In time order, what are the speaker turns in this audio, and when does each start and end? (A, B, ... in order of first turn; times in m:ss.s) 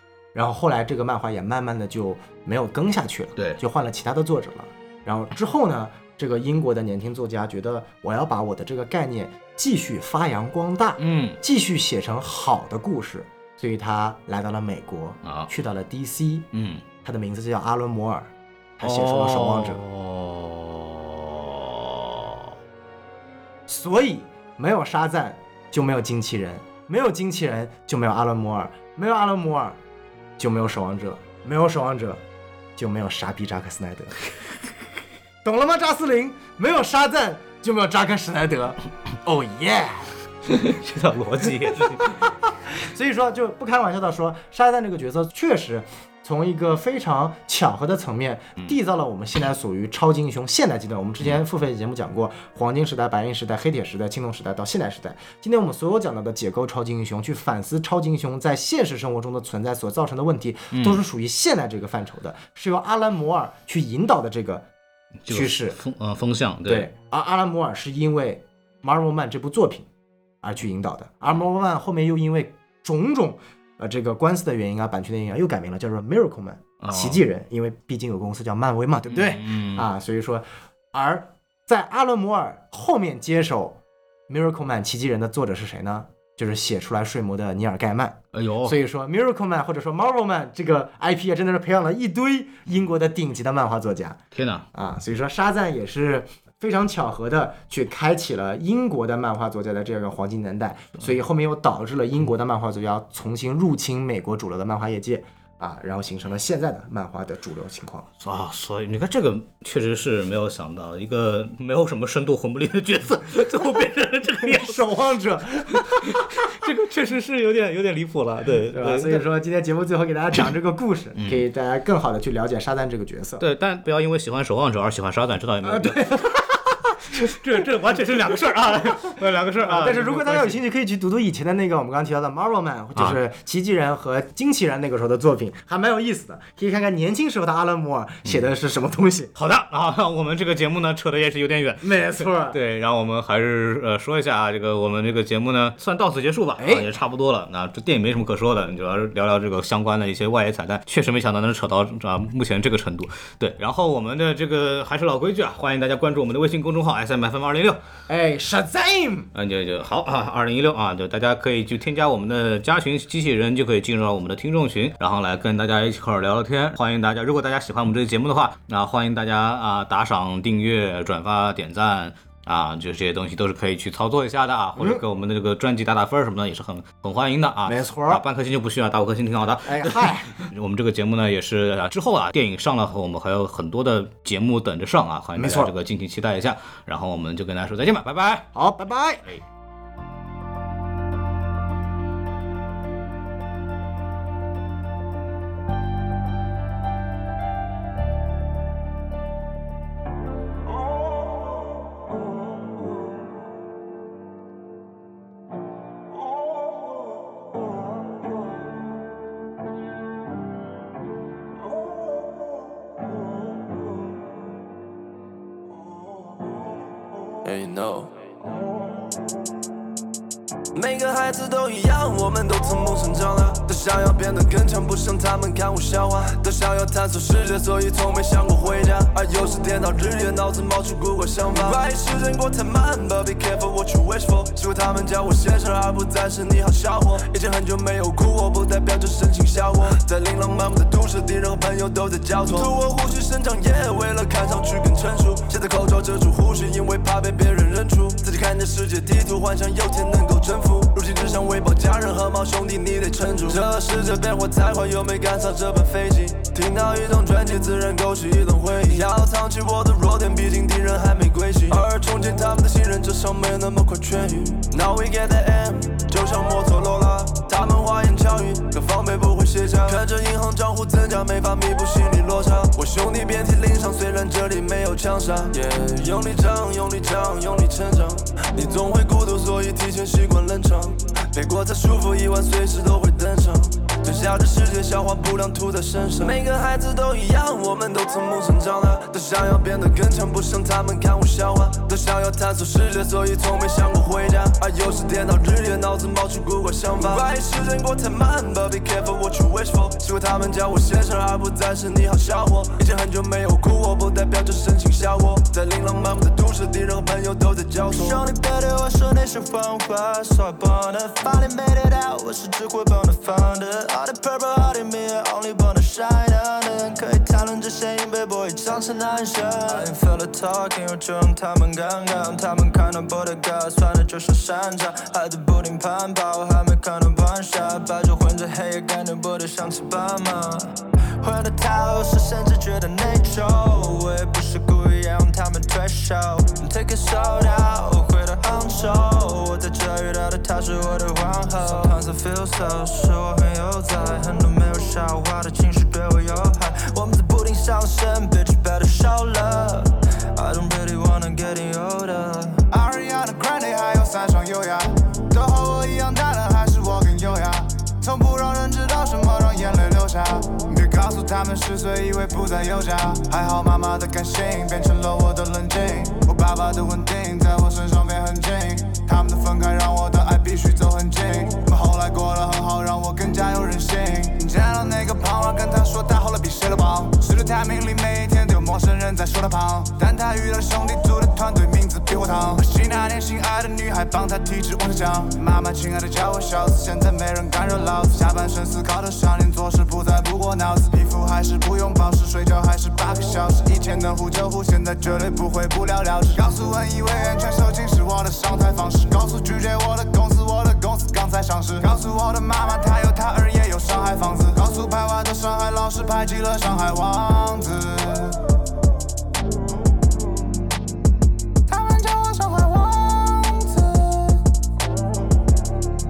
0:00.3-0:16.5 A
0:11.0-0:11.4 B
0:15.2-0:15.5 B
0:16.5-0:16.8 B
0:17.0-0:19.8 A
0:18.8-0:22.4 B
0:23.7-0:29.8 A
0:30.4-0:32.2 A
0:32.8-0:34.2 A
0:35.4-0:40.1 A
0:40.5-0:42.3 B
0:41.7-1:04.7 A
1:00.7-1:01.0 B
1:05.3-1:06.9 B
1:05.3-1:05.8 A
1:06.7-1:09.9 A
1:10.4-1:34.2 A
1:16.8-1:17.2 B
1:19.1-1:19.9 B
1:28.3-1:28.8 B
1:34.3-1:34.7 B
1:34.7-1:48.1 A
1:48.2-1:54.8 B
1:54.4-1:56.3 A
1:55.9-1:59.2 B
1:58.7-2:03.4 A
2:03.4-2:06.4 B
2:05.6-2:07.3 A
2:07.1-2:10.6 B
2:09.6-2:19.3 A
2:19.4-2:37.8 B
2:21.8-2:22.6 A
2:26.6-2:26.9 A
2:38.1-2:39.3 A
2:39.3-3:08.5 B
2:57.6-2:58.2 A
2:59.6-3:00.5 A
3:05.4-3:05.7 A
3:08.6-3:09.3 A
3:37.4-3:38.1 C
3:40.7-5:08.2 C
5:07.9-5:52.6 D
5:52.7-6:48.5 E
6:51.7-6:54.4 E